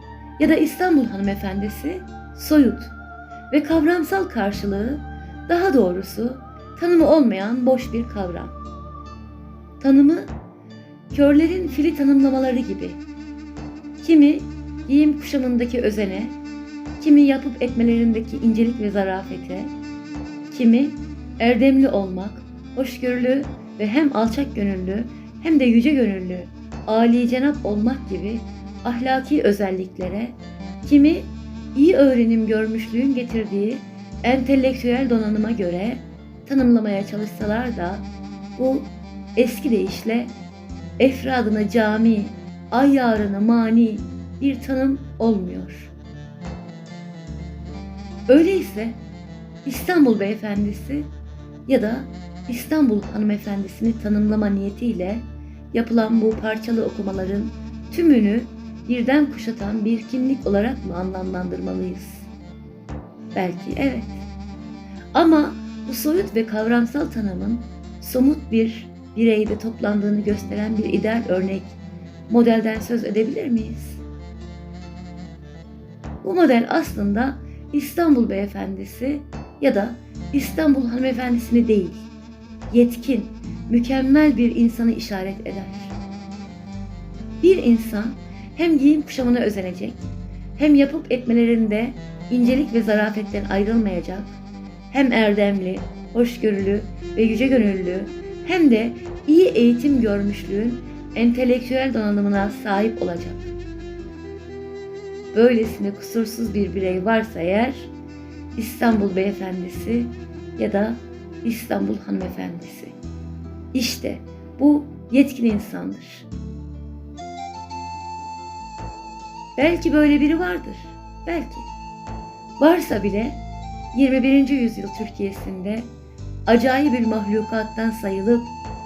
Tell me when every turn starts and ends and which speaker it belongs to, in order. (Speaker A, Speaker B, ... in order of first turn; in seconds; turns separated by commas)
Speaker A: 0.4-2.9, Speaker A: 3.5-8.6, Speaker A: 9.8-10.3, Speaker A: 11.1-13.0, Speaker A: 14.0-16.4, Speaker A: 17.0-19.7, Speaker A: 20.5-40.3, Speaker A: 41.0-45.9, Speaker A: 48.3-49.0, Speaker A: 49.6-51.1, Speaker A: 51.7-62.3, Speaker A: 63.3-64.3, Speaker A: 65.1-74.0, Speaker A: 76.2-82.1, Speaker A: 82.7-86.0, Speaker A: 87.4-94.4, Speaker A: 94.9-103.5, Speaker A: 105.3-107.9, Speaker A: 108.6-113.0, Speaker A: 113.7-116.3, Speaker A: 119.6-121.7, Speaker A: 122.6-123.4, Speaker A: 123.9-125.9, Speaker A: 126.5-128.6